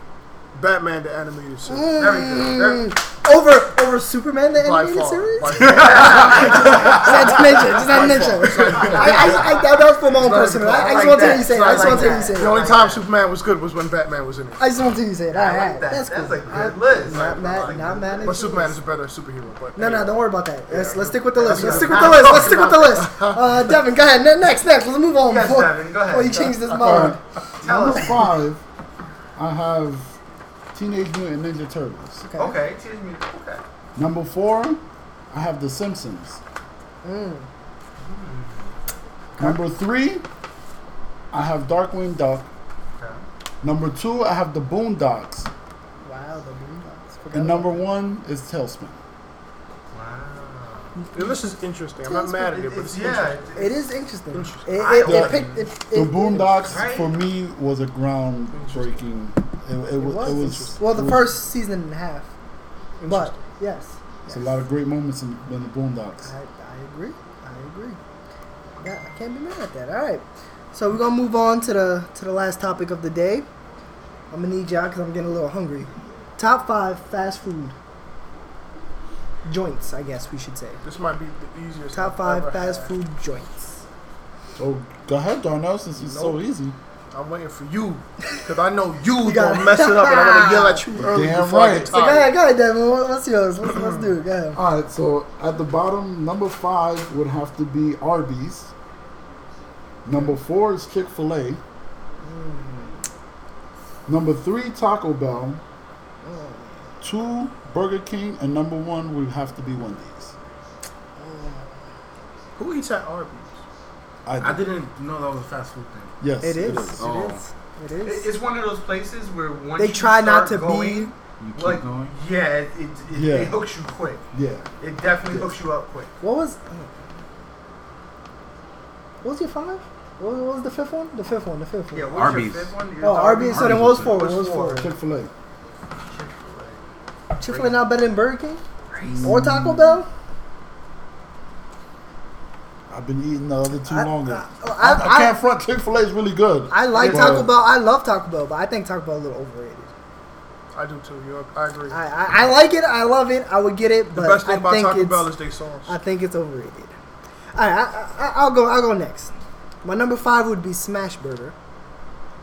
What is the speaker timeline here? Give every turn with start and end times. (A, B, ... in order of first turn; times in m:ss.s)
0:00.5-0:02.0 A
0:01.7-0:12.6 B
0:01.9-0:02.9 C
0:04.5-0:09.4 A
0:05.6-0:07.3 C
0:07.9-0:09.7 C
0:10.1-0:14.7 A
0:10.6-0:13.1 C
0:14.6-0:18.7 B
0:15.3-0:18.5 C
0:18.2-0:20.2 A
0:19.8-0:27.2 B
0:20.7-0:23.6 A
0:21.4-0:23.0 C
0:25.2-0:26.5 C
0:26.3-0:26.8 A
0:26.8-0:28.6 D
0:27.6-0:28.2 C
0:29.4-0:30.1 D
0:30.7-0:32.2 D
0:32.2-0:32.6 B
0:32.4-0:33.6 C
0:34.0-0:36.4 D
0:37.0-0:37.5 B
0:38.0-0:38.7 C
0:39.4-0:40.2 D
0:41.3-0:42.5 D
0:43.0-0:43.2 C
0:43.6-0:45.5 D
0:46.0-0:47.8 B
0:47.3-0:49.0 D
0:49.9-0:50.9 C
0:51.0-0:52.6 B
0:51.1-0:53.7 A
0:52.5-0:54.0 C
0:53.6-0:56.8 B
0:54.3-0:54.9 A
0:54.7-0:55.6 C
0:55.0-1:01.4 D
0:56.6-0:57.2 C
0:58.5-0:59.0 A
1:00.0-1:02.3 B
1:00.0-1:00.8 A
1:03.0-1:03.3 A
1:03.0-1:04.6 B
1:04.3-1:06.3 D
1:06.2-1:08.0 B
1:08.8-1:13.5 B
1:14.3-1:17.7 B
1:19.4-1:20.8 B
1:20.8-1:22.9 A
1:21.9-1:23.8 B
1:24.6-1:26.8 D
1:25.9-1:26.4 A
1:27.1-1:32.4 A
1:29.2-1:31.0 B
1:31.0-1:31.9 D
1:31.8-1:34.6 B
1:33.7-1:34.1 A
1:34.6-1:38.7 D
1:40.0-1:41.6 D
1:42.2-1:43.0 B
1:44.1-1:45.6 D
1:46.2-1:46.8 B
1:47.0-1:50.3 D
1:51.2-1:51.7 B
1:52.6-1:53.6 A
1:54.3-1:54.7 D
1:54.4-1:56.1 E
1:56.2-1:57.1 D
1:56.4-1:58.3 B
1:57.0-1:57.4 E
1:58.0-2:04.2 C
1:59.8-2:01.1 B
2:01.4-2:02.1 E
2:03.1-2:03.6 D
2:04.3-2:04.7 D
2:04.8-2:06.1 C
2:06.2-2:06.9 B
2:09.2-2:12.1 B
2:11.9-2:14.9 C
2:12.1-2:12.7 E
2:13.0-2:14.9 B
2:13.5-2:14.2 E
2:14.8-2:15.3 D
2:16.1-2:16.8 C
2:17.4-2:18.6 B
2:17.4-2:17.8 C
2:18.9-2:19.3 C
2:19.0-2:20.0 D
2:19.2-2:20.1 B
2:22.9-2:27.5 D
2:23.9-2:25.4 B
2:26.7-2:29.9 B
2:26.9-2:27.4 C
2:30.7-2:32.0 A
2:31.9-2:35.3 B
2:34.1-2:36.0 A
2:35.9-2:36.9 B
2:37.6-2:39.3 B
2:39.8-2:41.6 B